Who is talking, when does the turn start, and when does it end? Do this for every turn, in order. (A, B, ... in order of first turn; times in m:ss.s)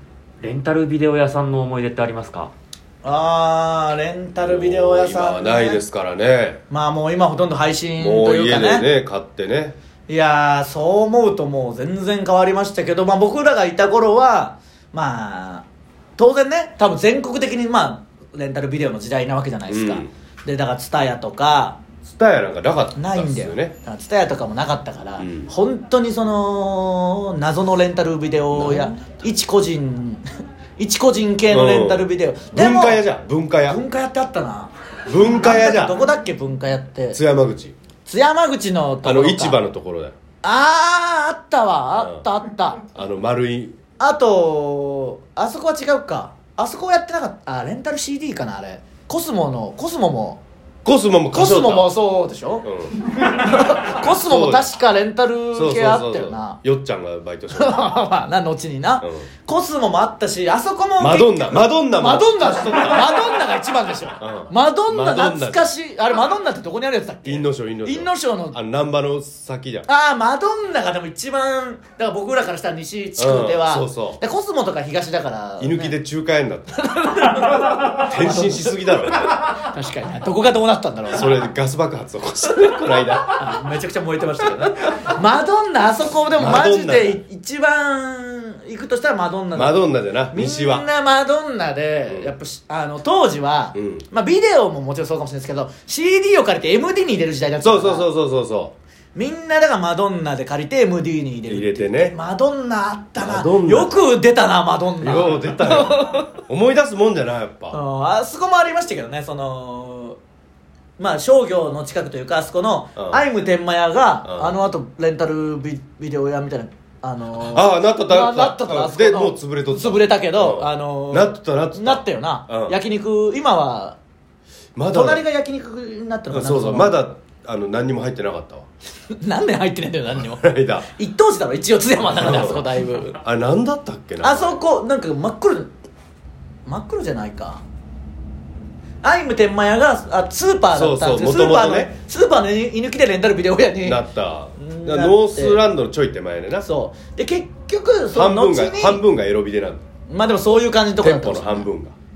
0:00.4-0:02.5 A
0:03.0-0:05.8 B
0:04.4-0:06.6 C
0:06.7-0:08.9 B
0:08.0-0:09.8 C
0:10.1-0:15.6 B
0:16.2-0:21.8 B
0:19.7-0:20.1 C
0:22.0-0:23.8 C
0:23.0-0:30.2 B
0:25.2-0:25.5 C
0:28.5-0:29.0 C
0:30.8-0:33.0 B
0:31.5-0:33.8 C
0:33.6-0:37.2 B
0:35.1-0:36.0 C
0:37.1-0:37.7 C
0:38.0-0:39.6 B
0:39.0-0:40.1 C
0:40.4-0:42.8 B
0:41.9-0:42.2 C
0:42.9-0:43.8 C
0:44.0-0:50.4 B
0:50.8-0:51.9 C
0:51.3-0:56.6 B
0:52.6-0:53.1 C
0:53.8-0:54.7 C
0:55.5-0:58.0 C
0:57.5-1:08.6 B
0:59.0-0:59.3 C
1:01.0-1:03.2 C
1:04.2-1:05.7 C
1:07.2-1:09.9 C
1:09.9-1:15.9 B
1:13.2-1:14.2 C
1:15.6-1:16.7 C
1:16.8-1:21.3 B
1:17.8-1:19.3 C
1:21.1-1:23.4 C
1:23.3-1:38.1 B
1:26.4-1:27.2 C
1:29.5-1:30.9 C
1:32.1-1:32.3 C
1:33.7-1:34.0 C
1:37.6-1:38.7 C
1:39.1-1:46.3 B
1:41.5-1:42.2 C
1:43.2-1:44.0 C
1:45.0-1:47.8 C
1:47.7-1:50.2 B
1:51.0-2:04.0 B
1:53.0-1:53.2 C
1:54.2-1:54.6 C
1:57.4-2:02.8 C
2:04.8-2:05.2 C
2:04.9-2:07.0 B
2:06.3-2:08.6 C
2:09.1-2:13.2 B
2:10.2-2:10.9 C
2:12.0-2:14.6 C
2:14.2-2:15.7 B
2:16.6-2:17.6 B
2:19.0-2:24.0 B
2:20.7-2:21.9 C
2:23.8-2:26.7 C
2:24.6-2:25.6 B
2:26.6-2:29.0 B
2:28.1-2:29.8 C
2:30.1-2:31.7 B
2:31.0-2:31.9 C